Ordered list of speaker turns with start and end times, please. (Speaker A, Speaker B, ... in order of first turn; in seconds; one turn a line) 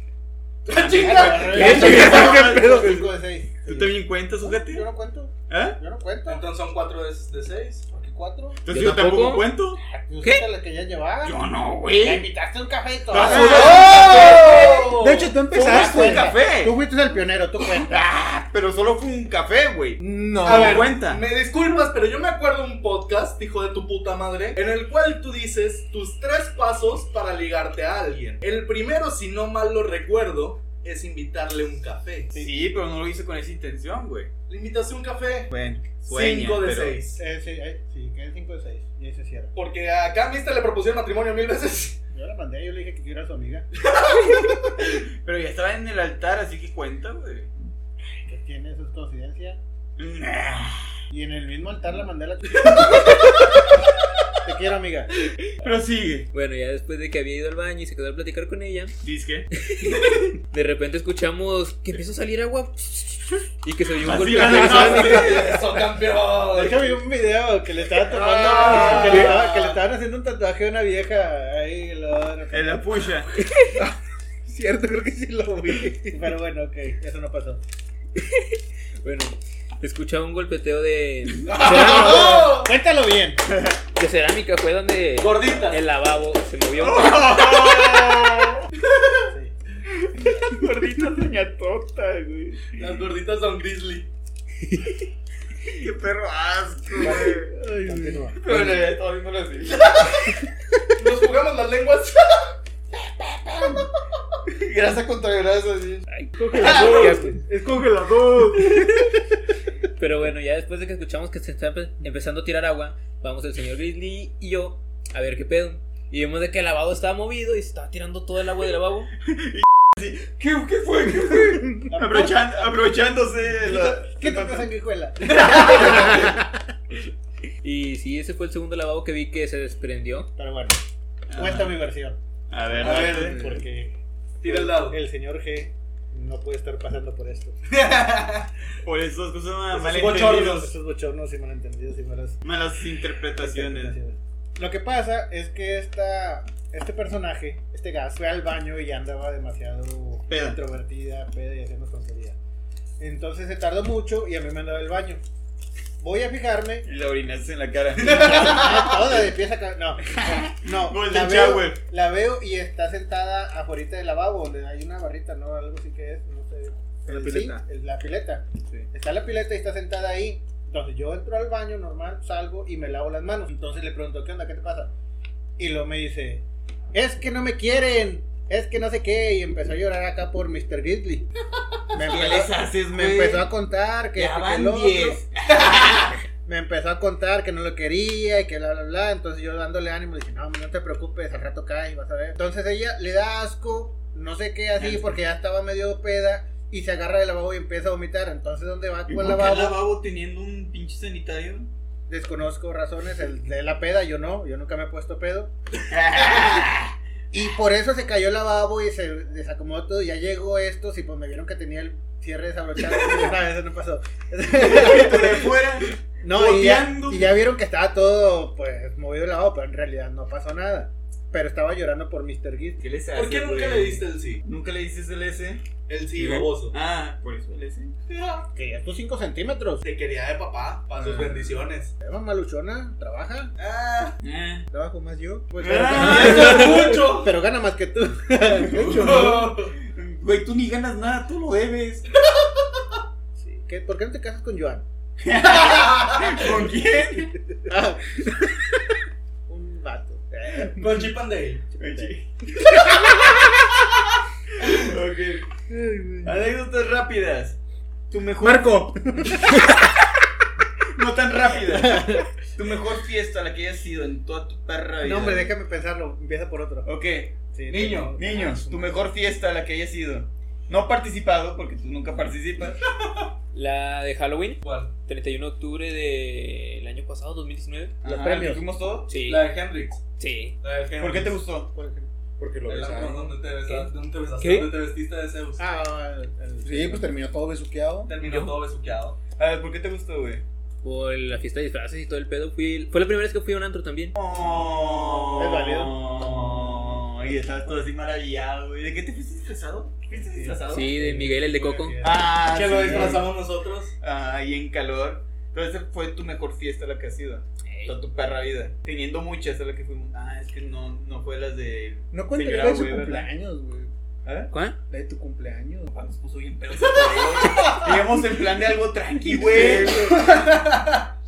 Speaker A: 0.7-2.1
Speaker B: 0.7-3.0
Speaker C: 0.7-6.4
Speaker D: 1.6-3.1
Speaker E: 1.7-2.3
Speaker B: 3.7-4.9
Speaker B: 5.5-5.8
Speaker A: 6.3-7.9
Speaker C: 7.9-8.6
Speaker B: 8.7-9.8
Speaker E: 8.7-9.5
Speaker C: 9.8-11.4
Speaker E: 10.2-10.5
Speaker B: 11.2-12.3
Speaker C: 12.0-14.7
Speaker B: 13.1-14.9
Speaker A: 13.1-15.4
Speaker D: 13.5-16.3
Speaker B: 15.5-16.8
Speaker C: 15.5-18.0
Speaker B: 17.9-21.2
Speaker D: 20.0-20.9
Speaker A: 20.4-32.3
Speaker B: 32.4-34.3
Speaker A: 34.5-35.5
Speaker B: 35.5-37.0
Speaker A: 36.0-37.2
Speaker C: 37.2-39.5
Speaker A: 39.5-42.0
Speaker C: 42.1-43.7
Speaker A: 43.8-44.8
Speaker B: 44.8-47.5
Speaker C: 48.3-49.6
Speaker B: 50.0-51.0
Speaker C: 51.1-53.3
Speaker B: 52.9-53.2
Speaker C: 54.5-55.1
Speaker B: 55.6-56.3
Speaker E: 56.3-58.9
Speaker B: 59.0-59.5
Speaker E: 59.5-65.4
Speaker B: 64.0-65.7
Speaker A: 64.4-66.9
Speaker C: 64.5-65.4
Speaker C: 66.5-72.8
Speaker A: 68.1-69.8
Speaker B: 68.4-69.4
Speaker B: 72.5-73.3
Speaker E: 73.4-73.8
Speaker D: 74.5-76.3
Speaker C: 76.1-77.6
Speaker E: 78.2-82.6
Speaker A: 81.5-82.7
Speaker C: 81.8-83.4
Speaker E: 84.0-87.5
Speaker A: 85.2-85.8
Speaker B: 86.8-88.7
Speaker B: 90.0-92.8
Speaker A: 92.8-94.1
Speaker E: 94.6-95.0
Speaker B: 95.7-97.5
Speaker C: 97.0-98.7
Speaker D: 97.5-98.3
Speaker B: 98.4-100.0
Speaker A: 99.7-100.4
Speaker A: 101.0-102.6
Speaker B: 104.5-106.0
Speaker E: 106.1-107.4
Speaker A: 106.6-107.3
Speaker B: 106.7-109.1
Speaker E: 108.7-109.1
Speaker E: 110.0-119.1
Speaker B: 119.2-124.7
Speaker C: 121.9-122.8
Speaker C: 123.7-126.5
Speaker A: 125.2-125.8
Speaker B: 125.3-126.3
Speaker E: 125.9-126.3
Speaker E: 127.6-130.3
Speaker C: 130.4-130.8
Speaker B: 131.3-131.8
Speaker C: 131.3-137.6
Speaker B: 132.5-133.6
Speaker A: 132.8-133.4
Speaker D: 133.0-133.5
Speaker A: 134.4-135.0
Speaker A: 137.7-138.5
Speaker B: 138.8-140.6
Speaker A: 139.7-140.7
Speaker C: 140.0-142.4
Speaker B: 142.4-144.0
Speaker C: 143.4-152.4
Speaker B: 150.3-150.6
Speaker C: 153.0-155.2
Speaker C: 156.0-156.9
Speaker B: 156.8-158.8
Speaker A: 158.0-159.0
Speaker C: 158.0-174.9
Speaker B: 160.1-161.8
Speaker D: 167.1-167.6
Speaker C: 175.6-181.3
Speaker C: 181.9-185.2
Speaker B: 182.0-183.5
Speaker B: 184.2-186.1
Speaker A: 185.5-186.1
Speaker C: 186.4-199.8
Speaker B: 194.8-195.1
Speaker B: 199.1-201.7
Speaker C: 202.1-205.5
Speaker B: 205.9-206.9
Speaker C: 206.2-206.6
Speaker C: 207.3-215.6
Speaker B: 214.6-217.3
Speaker C: 216.2-222.8
Speaker B: 222.8-225.6
Speaker A: 223.2-224.4
Speaker A: 225.9-226.8
Speaker B: 226.2-227.9
Speaker A: 228.1-228.5
Speaker C: 228.6-229.8
Speaker A: 229.8-231.9
Speaker C: 232.0-233.5
Speaker A: 233.6-234.2
Speaker B: 234.2-234.7
Speaker C: 234.7-239.4
Speaker B: 235.6-236.8
Speaker A: 235.9-237.3
Speaker B: 238.5-242.1
Speaker A: 238.8-239.8
Speaker D: 238.8-239.2
Speaker A: 242.2-242.8
Speaker C: 243.4-244.8
Speaker B: 245.2-247.3
Speaker A: 245.4-246.5
Speaker C: 247.7-248.6
Speaker C: 249.5-251.0
Speaker A: 250.7-251.7
Speaker B: 251.8-253.0
Speaker C: 251.8-252.2
Speaker A: 254.6-254.9
Speaker B: 254.6-255.4
Speaker D: 255.7-256.4
Speaker B: 256.2-257.6
Speaker B: 258.1-259.9
Speaker C: 258.4-259.5
Speaker B: 260.9-265.5
Speaker C: 261.7-262.1
Speaker C: 265.0-266.9
Speaker B: 266.9-267.4
Speaker C: 267.5-269.1
Speaker A: 267.7-268.2
Speaker B: 268.2-272.8
Speaker E: 273.5-278.0
Speaker A: 274.6-274.9
Speaker C: 278.0-278.6
Speaker B: 278.0-279.1
Speaker E: 279.1-279.5
Speaker A: 279.2-280.0
Speaker E: 280.2-280.6
Speaker A: 280.6-281.4
Speaker B: 281.0-281.7
Speaker C: 281.7-282.1
Speaker B: 282.4-283.2
Speaker A: 282.7-285.6
Speaker E: 283.7-284.7
Speaker C: 285.6-287.1
Speaker D: 286.6-288.1
Speaker A: 288.1-289.2
Speaker E: 288.2-288.5
Speaker B: 289.4-290.4
Speaker E: 290.8-294.2
Speaker B: 294.2-300.9
Speaker C: 295.4-296.4
Speaker C: 297.2-297.8
Speaker C: 300.1-303.2
Speaker E: 300.7-302.0
Speaker B: 302.0-303.3
Speaker A: 302.5-303.9
Speaker B: 304.0-313.3
Speaker E: 307.7-307.9
Speaker D: 312.1-313.9
Speaker B: 314.2-314.5
Speaker E: 314.5-314.8
Speaker D: 314.9-315.9
Speaker B: 315.9-320.2
Speaker A: 317.0-317.9
Speaker D: 319.3-320.4
Speaker A: 319.9-321.1